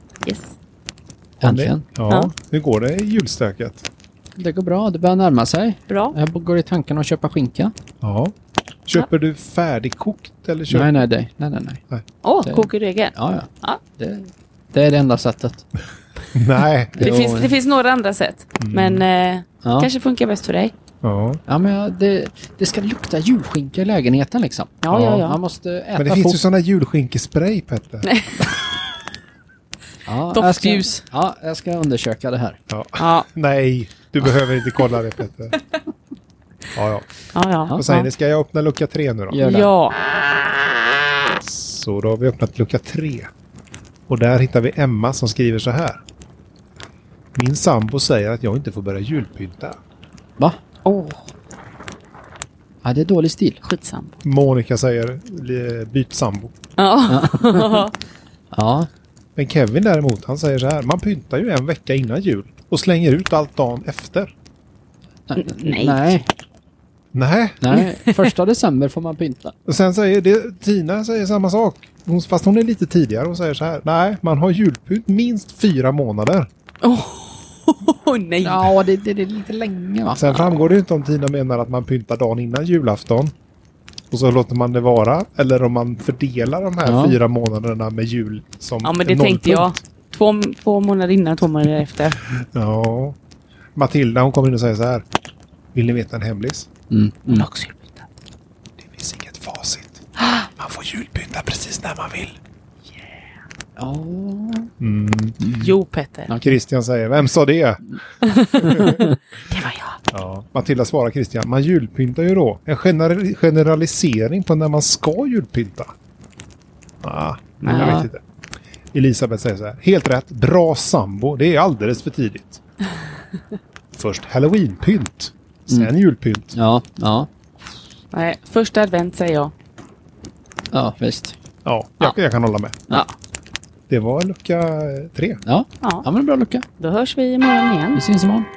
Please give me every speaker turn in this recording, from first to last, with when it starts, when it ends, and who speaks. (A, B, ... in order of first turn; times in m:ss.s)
0:00.2-0:00.5 A
0:01.4-0:03.8 B
0:01.4-0:01.8 C
0:04.4-0:07.7 C
0:05.9-0:06.2 A
0:08.0-0:08.3 B
0:08.9-0:11.1 B
0:10.7-0:11.8 C
0:12.2-0:13.8 A
0:12.4-0:15.7 C
0:16.3-0:17.1 B
0:17.0-0:17.6 C
0:17.0-0:20.7 A
0:18.6-0:19.0 B
0:19.6-0:19.9 C
0:21.0-0:21.4 B
0:21.5-0:26.4 C
0:24.8-0:25.4 A
0:24.9-0:25.2 B
0:26.0-0:28.1 B
0:30.1-0:32.6 C
0:30.3-0:31.0 A
0:32.7-0:35.6 B
0:33.0-0:33.3 A
0:36.8-0:39.4 B
0:37.3-0:38.1 A
0:39.3-0:39.7 C
0:39.4-0:40.0 A
0:41.4-0:43.3 B
0:44.1-0:46.0 B
0:47.4-0:49.8 B
0:50.8-0:51.3 A
0:52.8-0:53.6 C
0:53.6-0:54.2 A
0:54.2-0:56.5 B
0:56.8-0:57.9 A
0:57.1-0:57.8 C
0:58.5-0:58.9 C
0:59.4-1:04.3 B
1:05.3-1:06.3 C
1:05.4-1:06.2 A
1:07.1-1:07.6 B
1:07.6-1:09.6 C
1:07.7-1:08.3 A
1:09.7-1:16.5 B
1:16.8-1:18.8 A
1:18.4-1:20.2 C
1:20.2-1:23.3 B
1:24.1-1:29.8 B
1:26.8-1:27.2 C
1:28.8-1:32.2 A
1:32.4-1:33.2 B
1:33.8-1:35.0 B
1:35.7-1:36.7 B
1:36.9-1:37.5 C
1:37.3-1:38.0 A
1:38.8-1:42.4 B
1:40.2-1:40.5 A
1:43.8-1:44.7 C
1:44.8-1:45.7 B
1:45.4-1:45.7 C
1:45.6-1:46.3 A
1:46.3-1:46.6 C
1:46.4-1:49.0 B
1:48.2-1:50.0 A
1:48.8-1:49.1 C
1:50.1-1:55.9 B
1:57.0-1:58.2 B
1:57.6-1:58.1 A
1:57.7-1:58.1 C
1:58.9-2:02.6 B
2:03.9-2:06.6 B
2:06.6-2:07.3 C
2:08.1-2:09.5 A
2:10.7-2:11.4 C
2:11.6-2:12.8 B
2:13.9-2:15.4 B
2:15.4-2:16.6 C
2:15.8-2:16.1 A
2:16.8-2:18.0 A
2:17.9-2:18.5 C